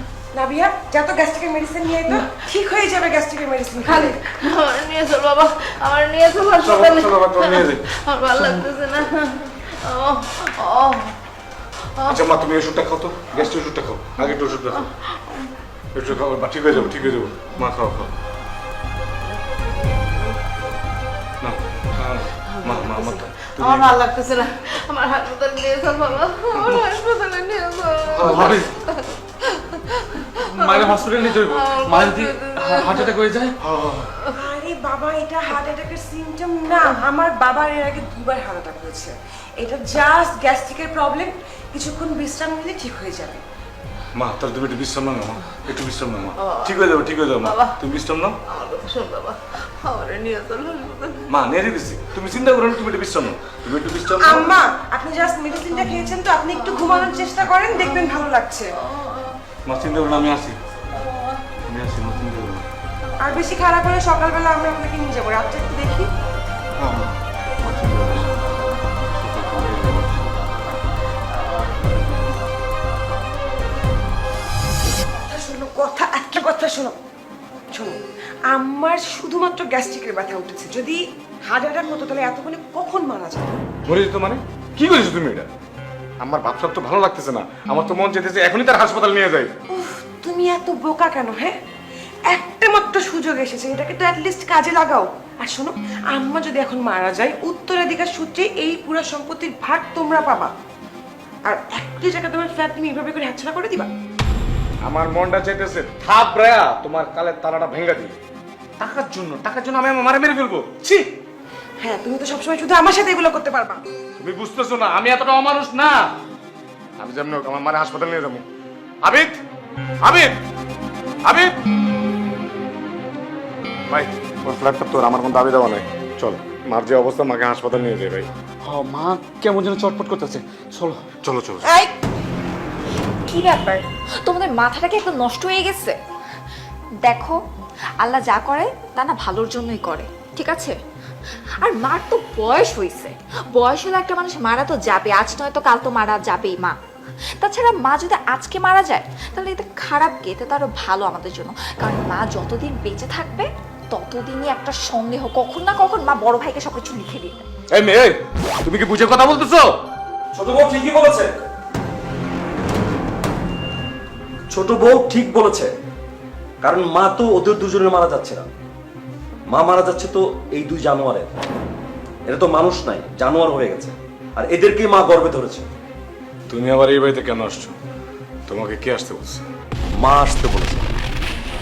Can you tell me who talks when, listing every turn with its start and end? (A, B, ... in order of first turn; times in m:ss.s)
0:00.3-0:04.2 A
0:03.9-0:11.1 B
0:06.6-0:07.8 C
0:12.0-0:12.3 B
0:12.1-0:14.8 C
0:13.3-0:13.6 B
0:14.2-0:15.5 B
0:15.9-0:18.1 C
0:16.8-0:17.5 B
0:21.4-0:23.9 C
0:22.2-0:33.3 B
0:28.2-0:28.7 C
0:28.3-0:28.7 D
0:30.9-0:31.4 D
0:31.9-0:33.5 D
0:34.3-0:43.4 A
0:44.2-0:48.4 C
0:46.4-0:47.8 B
0:48.5-0:51.4 B
0:51.3-0:54.5 C
0:54.2-0:58.7 A
0:55.8-0:57.2 B
0:57.7-0:58.1 B
0:58.9-0:59.4 B
0:59.7-1:00.6 C
1:01.0-1:01.4 B
1:01.7-1:02.7 C
1:03.2-1:06.1 A
1:07.6-1:08.3 C
1:09.2-1:10.3 C
1:15.0-1:17.0 A
1:17.7-1:23.6 A
1:23.8-1:25.5 C
1:26.2-1:29.5 C
1:29.7-1:31.6 A
1:32.3-1:40.5 A
1:41.4-1:43.9 A
1:44.8-1:48.1 C
1:48.8-1:50.8 C
1:51.8-1:53.8 A
1:54.2-1:56.1 C
1:57.0-1:58.4 C
1:59.0-1:59.4 C
2:00.0-2:00.4 C
2:01.2-2:01.5 C
2:03.9-2:08.3 C
2:08.7-2:11.0 D
2:11.2-2:11.6 C
2:13.3-2:16.0 E
2:17.0-2:17.4 E
2:18.0-2:20.8 E
2:21.6-2:26.8 E
2:27.4-2:37.4 E
2:37.7-2:39.8 C
2:40.3-2:41.4 F
2:44.5-2:45.7 F
2:46.6-2:48.4 F
2:49.5-2:51.3 F
2:52.3-2:55.7 F
2:56.5-2:57.8 C
2:58.5-2:59.4 C
3:00.0-3:00.9 F